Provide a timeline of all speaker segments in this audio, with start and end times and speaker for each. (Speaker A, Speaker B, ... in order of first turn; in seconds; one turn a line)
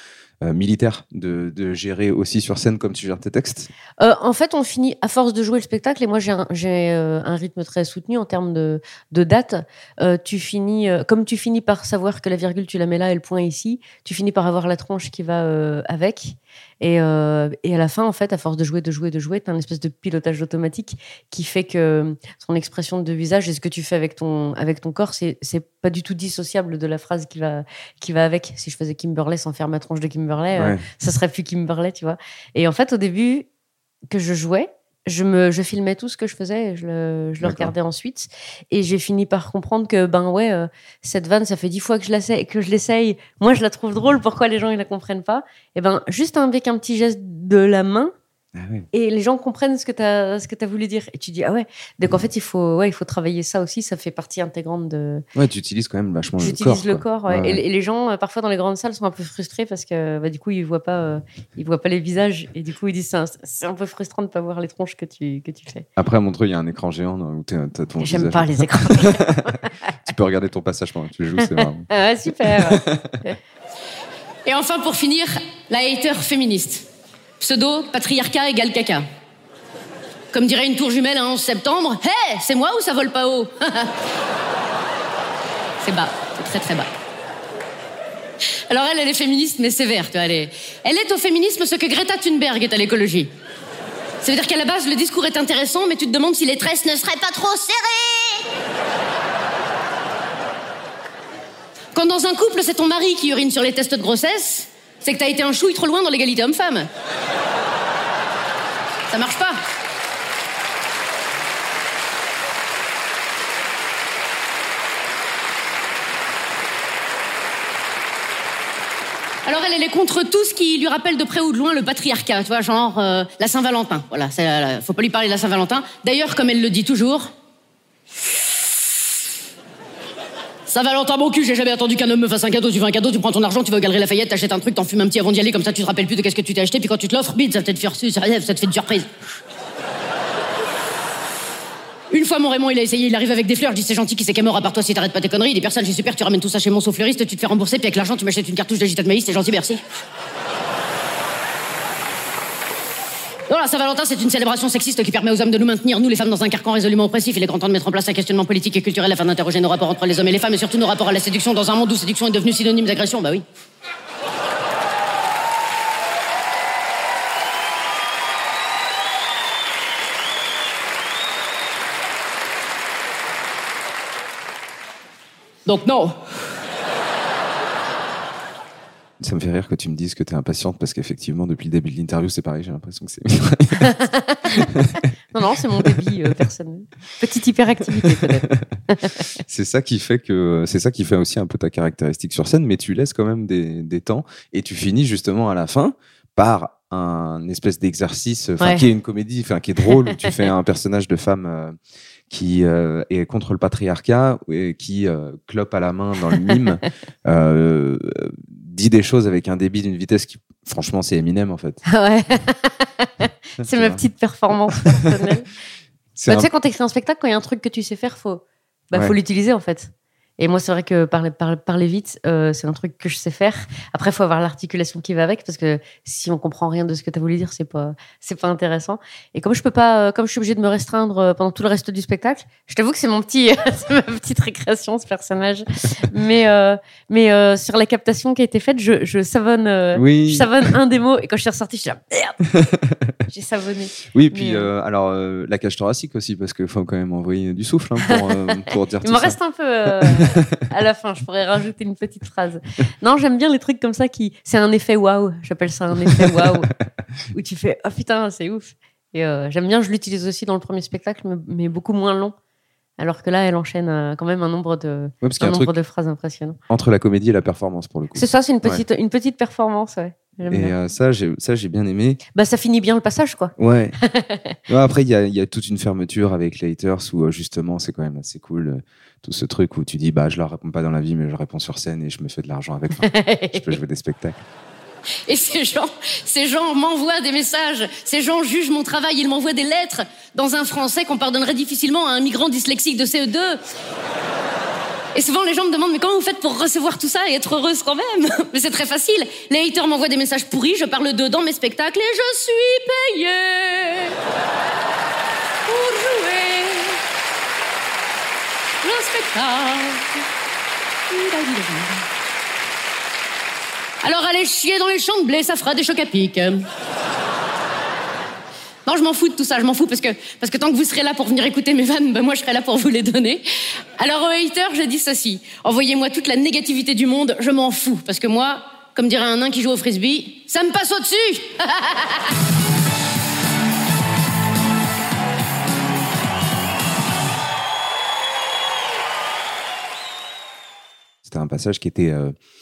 Speaker A: 0.4-3.7
Speaker B: 4.0-33.5
Speaker A: 30.6-30.8
Speaker B: 34.1-48.1
Speaker A: 37.4-37.7
Speaker A: 48.5-48.9
Speaker B: 48.9-55.2
Speaker A: 55.4-57.6
Speaker B: 56.4-65.9
Speaker A: 66.0-73.2
Speaker B: 68.0-69.6
Speaker B: 71.4-73.4
Speaker C: 74.5-76.8
Speaker C: 77.4-79.0
Speaker C: 80.3-83.9
Speaker C: 85.8-86.9
Speaker C: 88.7-93.3
Speaker C: 94.2-98.4
Speaker C: 101.9-106.9
Speaker C: 109.1-109.6
Speaker C: 119.5-127.3
Speaker C: 130.7-139.1
Speaker C: 142.1-149.8
Speaker C: 153.5-163.4
Speaker C: 175.7-176.2
Speaker A: 179.2-185.1
Speaker B: 183.9-184.4
Speaker B: 185.3-189.2
Speaker A: 188.0-188.7
Speaker A: 189.4-201.8
Speaker B: 198.6-198.9
Speaker A: 202.3-211.8
Speaker B: 211.9-215.5
Speaker A: 213.6-214.0
Speaker A: 216.2-216.5
Speaker B: 216.3-242.4
Speaker A: 239.9-240.7
Speaker A: 242.5-243.2
Speaker B: 243.3-244.7
Speaker A: 244.1-249.4
Speaker B: 248.0-248.5
Speaker B: 249.0-256.7
Speaker A: 249.9-250.5
Speaker A: 256.0-256.5
Speaker B: 257.3-262.4
Speaker B: 263.0-266.6
Speaker A: 265.2-265.8
Speaker A: 266.7-268.9
Speaker B: 268.1-270.8
Speaker A: 270.5-272.2
Speaker B: 272.4-274.6
Speaker A: 273.6-274.0
Speaker A: 274.7-284.4
Speaker B: 283.0-283.7
Speaker C: 285.3-293.6
Speaker C: 295.1-304.2
Speaker C: 305.7-307.0
Speaker C: 308.8-310.2
Speaker C: 311.1-312.1
Speaker C: 314.0-316.6
Speaker C: 318.9-323.4
Speaker C: 324.0-332.2
Speaker A: 341.2-342.4